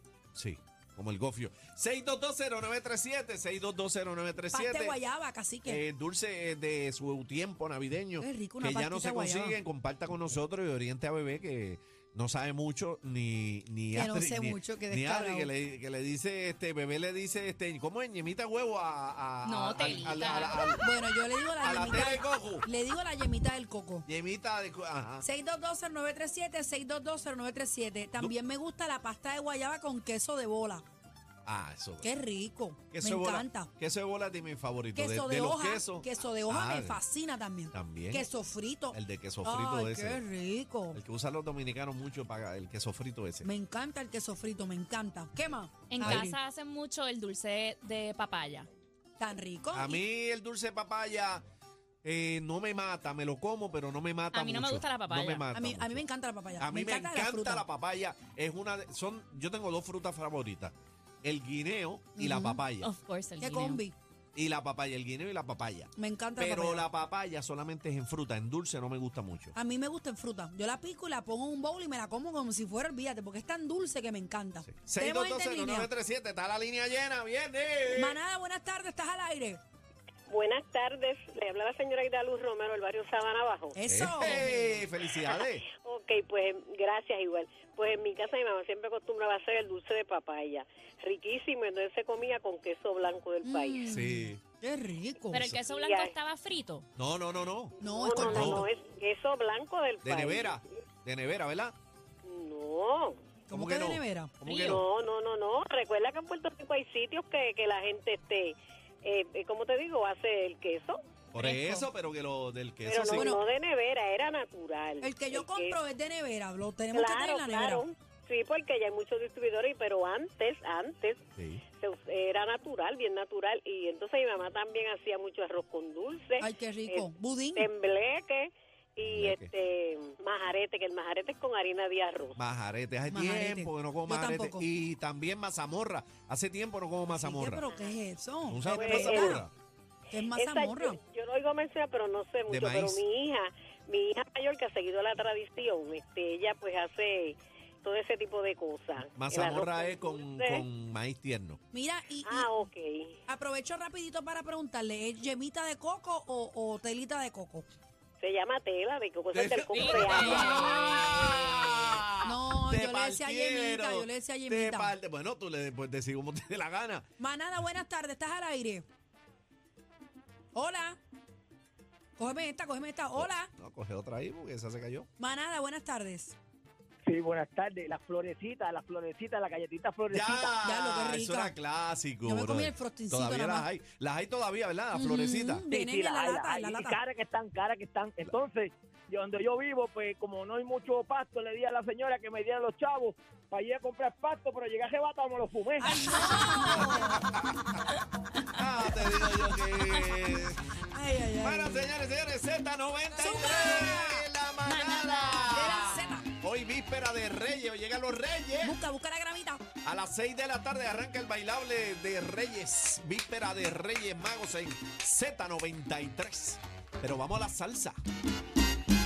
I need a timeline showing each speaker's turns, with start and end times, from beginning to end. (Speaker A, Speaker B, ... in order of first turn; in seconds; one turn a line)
Speaker A: 0.3-5.0
Speaker B: 4.5-5.8
Speaker A: 5.6-20.9
Speaker B: 8.2-9.6
Speaker B: 13.9-15.5
Speaker C: 19.4-20.6
Speaker B: 20.8-24.1
Speaker A: 21.6-22.6
Speaker A: 24.1-25.2
Speaker B: 25.2-30.8
Speaker A: 31.4-32.1
Speaker B: 32.0-33.7
Speaker A: 32.9-37.0
Speaker B: 34.9-41.0
Speaker A: 37.7-38.2
Speaker A: 38.9-40.2
Speaker A: 40.9-43.5
Speaker B: 43.4-46.4
Speaker C: 45.9-48.7
Speaker B: 49.2-50.0
Speaker A: 49.7-51.4
Speaker A: 52.0-56.0
Speaker C: 54.3-55.4
Speaker B: 55.5-57.7
Speaker A: 56.6-62.9
Speaker B: 62.1-62.6
Speaker C: 62.8-63.8
Speaker B: 63.4-64.0
Speaker A: 64.3-69.5
Speaker B: 65.9-66.9
Speaker B: 69.5-75.9
Speaker A: 74.6-78.2
Speaker B: 77.9-79.6
Speaker D: 80.3-83.8
Speaker B: 83.7-84.6
Speaker A: 83.8-85.7
Speaker D: 85.1-93.9
Speaker B: 93.4-95.5
Speaker A: 93.8-94.4
Speaker C: 95.3-96.8
Speaker A: 95.3-95.6
Speaker D: 95.6-96.2
Speaker A: 97.0-98.6
Speaker D: 97.8-100.6
Speaker B: 97.8-98.7
Speaker A: 100.0-101.7
Speaker D: 102.2-103.2
Speaker B: 103.5-104.3
Speaker A: 103.5-104.9
Speaker C: 104.4-104.8
Speaker D: 104.5-111.0
Speaker A: 111.3-113.4
Speaker C: 111.4-111.9
Speaker D: 112.8-115.8
Speaker B: 113.1-113.4
Speaker B: 115.0-117.8
Speaker D: 116.9-132.4
Speaker A: 121.4-121.6
Speaker B: 126.4-127.7
Speaker A: 129.0-129.5
Speaker A: 132.4-137.7
Speaker B: 133.1-134.7
Speaker B: 137.1-139.5
Speaker D: 137.5-138.0
Speaker A: 138.4-139.5
Speaker D: 138.7-139.4
Speaker B: 140.1-141.0
Speaker D: 140.3-150.6
Speaker A: 142.5-143.0
Speaker A: 149.1-151.6
Speaker B: 151.7-152.7
Speaker D: 152.2-153.2
Speaker B: 153.3-157.7
Speaker D: 158.2-161.9
Speaker A: 159.3-167.1
Speaker C: 159.7-161.2
Speaker B: 162.2-164.9
Speaker B: 167.2-168.8
Speaker B: 170.5-171.0
Speaker B: 172.2-173.5
Speaker A: 173.2-175.1
Speaker B: 175.2-176.3
Speaker E: 177.1-180.6
Speaker A: 180.1-185.7
Speaker B: 180.6-181.6
Speaker B: 182.2-183.7
Speaker B: 184.9-187.0
Speaker E: 185.7-196.9
Speaker B: 195.8-197.3
Speaker C: 196.2-196.7
Speaker A: 196.7-197.8
Speaker A: 198.5-200.6
Speaker B: 200.9-201.9
Speaker A: 201.4-208.7
Speaker B: 203.1-204.2
Speaker C: 204.6-206.0
Speaker B: 205.4-206.3
Speaker B: 208.6-209.7
Speaker A: 209.8-218.0